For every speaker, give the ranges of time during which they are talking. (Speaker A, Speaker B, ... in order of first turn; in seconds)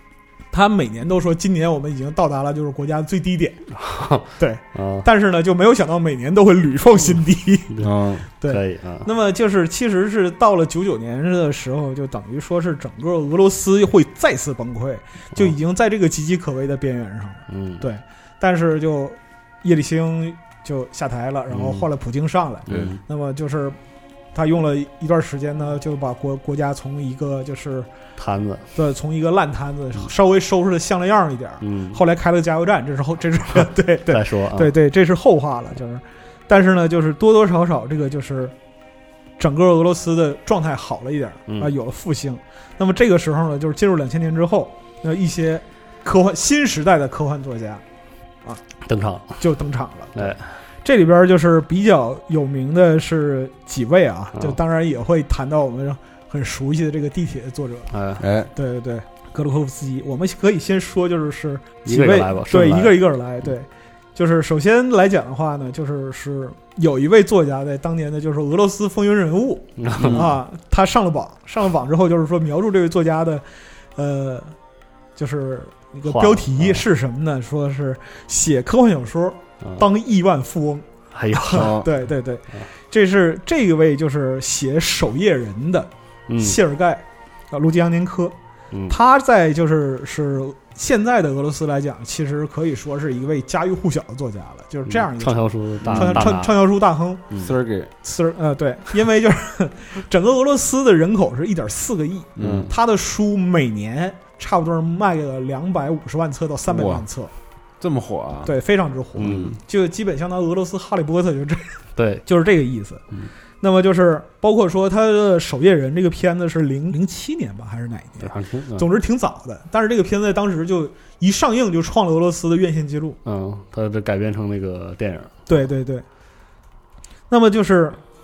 Speaker A: 0.5-3.6, 4.4-7.8, 8.4-23.8, 24.3-27.9, 28.8-38.5, 39.4-47.8, 49.4-57.9, 58.5-73.4, 74.0-74.5, 75.2-88.3, 88.9-97.3, 98.0-107.3, 108.4-113.0, 113.6-123.2, 125.5-126.0, 127.3-128.0
Speaker B: 3.7-5.0, 8.5-9.1, 17.5-17.8, 21.5-21.9, 22.6-23.0, 28.2-28.7, 31.6-32.0, 33.5-34.7, 41.5-41.7, 48.9-49.4, 50.1-50.4, 57.9-58.2, 61.9-63.0, 69.8-70.2, 76.1-76.8, 81.1-81.8, 86.3-86.6, 88.7-89.0, 94.9-96.6, 102.4-102.7, 109.2-109.5, 112.0-112.2, 118.2-118.9, 123.2-125.3
Speaker C: 7.8-8.2, 22.7-22.9, 58.2-58.5, 70.0-70.3, 81.5-81.9, 95.8-96.3, 97.4-97.9, 102.4-102.7, 106.7-107.0, 107.8-108.5, 109.2-109.5